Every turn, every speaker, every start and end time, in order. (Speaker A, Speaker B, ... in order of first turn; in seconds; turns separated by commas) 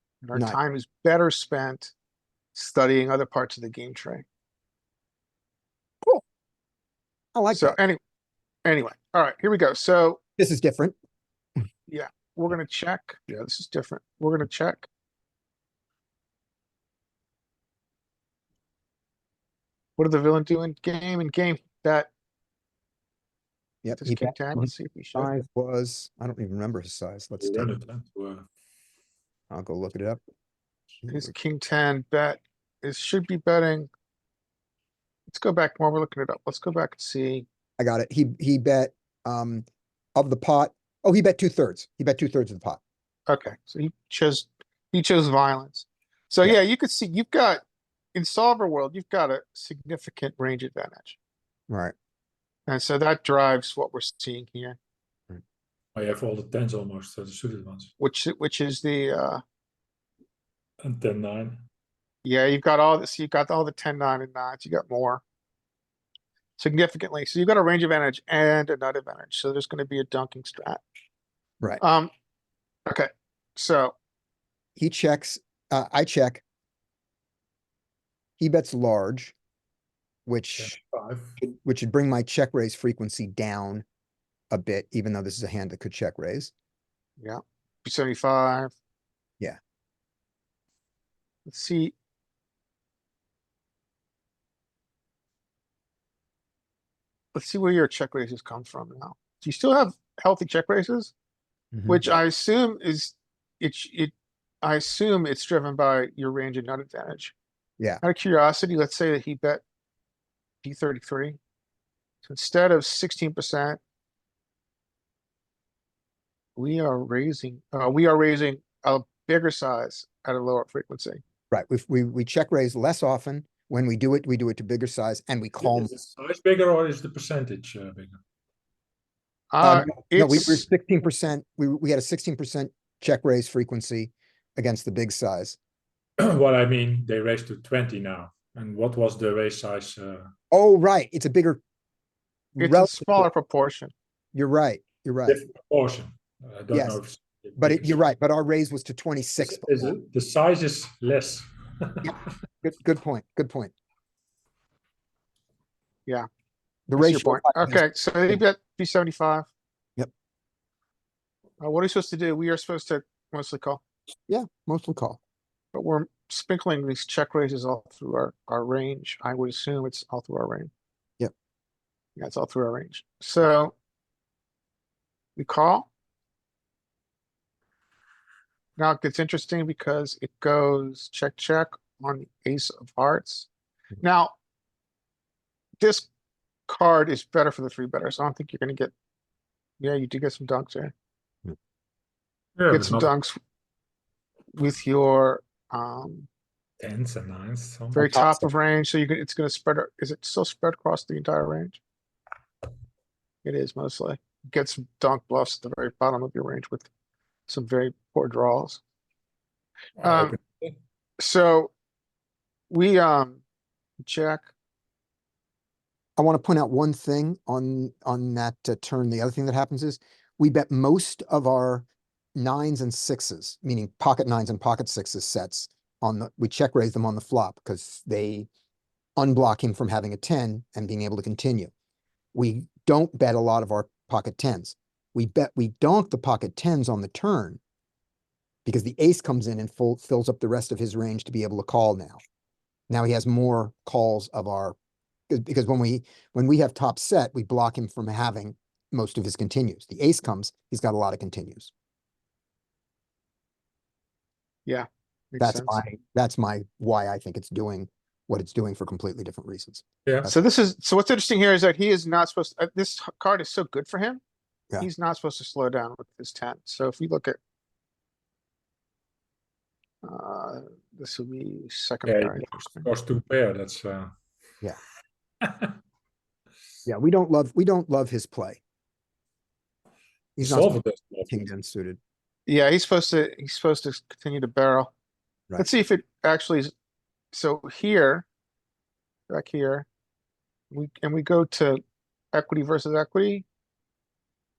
Speaker A: 0.2-1.9, Speaker A: 2.5-4.2, Speaker B: 7.3-7.8, Speaker A: 7.5-8.0, Speaker A: 8.6-10.2, Speaker B: 10.4-10.9, Speaker A: 11.9-14.9, Speaker A: 20.0-22.1, Speaker B: 23.8-27.7, Speaker A: 24.0-25.3, Speaker C: 27.4-28.4, Speaker B: 29.5-30.2, Speaker B: 31.0-31.3, Speaker A: 31.1-33.9, Speaker A: 35.3-37.5, Speaker B: 37.8-42.8, Speaker A: 43.3-47.6, Speaker A: 48.1-51.2, Speaker B: 51.7-51.9, Speaker A: 52.7-54.8, Speaker C: 55.9-57.9, Speaker A: 58.0-59.4, Speaker C: 60.8-61.6, Speaker A: 62.2-65.2, Speaker A: 66.6-70.8, Speaker A: 71.8-72.1, Speaker A: 72.8-73.9, Speaker B: 74.8-76.4, Speaker B: 78.4-79.3, Speaker B: 80.2-80.7, Speaker C: 80.5-81.4, Speaker B: 81.4-83.8, Speaker B: 84.5-86.5, Speaker A: 87.2-88.7, Speaker A: 91.5-91.9, Speaker A: 97.3-101.1, Speaker B: 101.7-102.0, Speaker A: 101.9-107.3, Speaker A: 108.0-109.6, Speaker A: 110.6-111.4, Speaker A: 112.2-113.8, Speaker A: 116.6-121.2, Speaker B: 121.5-125.9, Speaker C: 125.6-128.2, Speaker A: 129.5-130.6, Speaker B: 129.6-135.6, Speaker C: 136.2-140.3, Speaker B: 140.5-141.6, Speaker B: 142.6-143.3, Speaker A: 142.6-143.9, Speaker B: 144.3-145.4, Speaker C: 145.3-148.0, Speaker B: 146.7-147.0, Speaker B: 147.6-149.9, Speaker C: 149.4-152.1, Speaker B: 152.0-153.7, Speaker B: 156.9-157.8, Speaker A: 156.9-159.5, Speaker A: 161.6-163.8, Speaker B: 164.3-165.2, Speaker A: 165.7-170.7, Speaker A: 172.2-173.7, Speaker A: 175.3-175.9, Speaker A: 178.8-183.5, Speaker A: 184.0-184.3, Speaker A: 185.8-186.1, Speaker A: 186.7-188.9, Speaker A: 189.8-190.9, Speaker C: 192.6-193.1, Speaker A: 192.7-193.4, Speaker A: 194.5-196.3, Speaker C: 196.8-198.2, Speaker B: 197.9-198.4, Speaker A: 197.9-201.8, Speaker A: 203.4-206.9, Speaker A: 207.5-208.8, Speaker C: 210.0-210.7, Speaker A: 210.0-210.4, Speaker A: 211.2-211.7, Speaker A: 212.7-213.4, Speaker A: 214.0-214.5, Speaker B: 216.2-228.5, Speaker B: 229.2-231.7, Speaker B: 232.3-237.6, Speaker B: 238.7-242.2, Speaker B: 242.9-244.8, Speaker B: 245.3-251.7, Speaker A: 254.7-255.8, Speaker B: 255.4-260.4, Speaker A: 260.2-264.2, Speaker A: 264.8-267.4, Speaker A: 270.0-272.9, Speaker C: 272.1-274.1, Speaker C: 275.4-275.7, Speaker B: 276.9-278.6, Speaker B: 280.4-280.7, Speaker C: 280.4-281.4, Speaker B: 281.3-282.0, Speaker A: 282.5-284.9, Speaker A: 285.6-286.7, Speaker A: 287.3-288.2, Speaker A: 289.3-289.9, Speaker A: 290.7-291.8, Speaker A: 292.3-293.4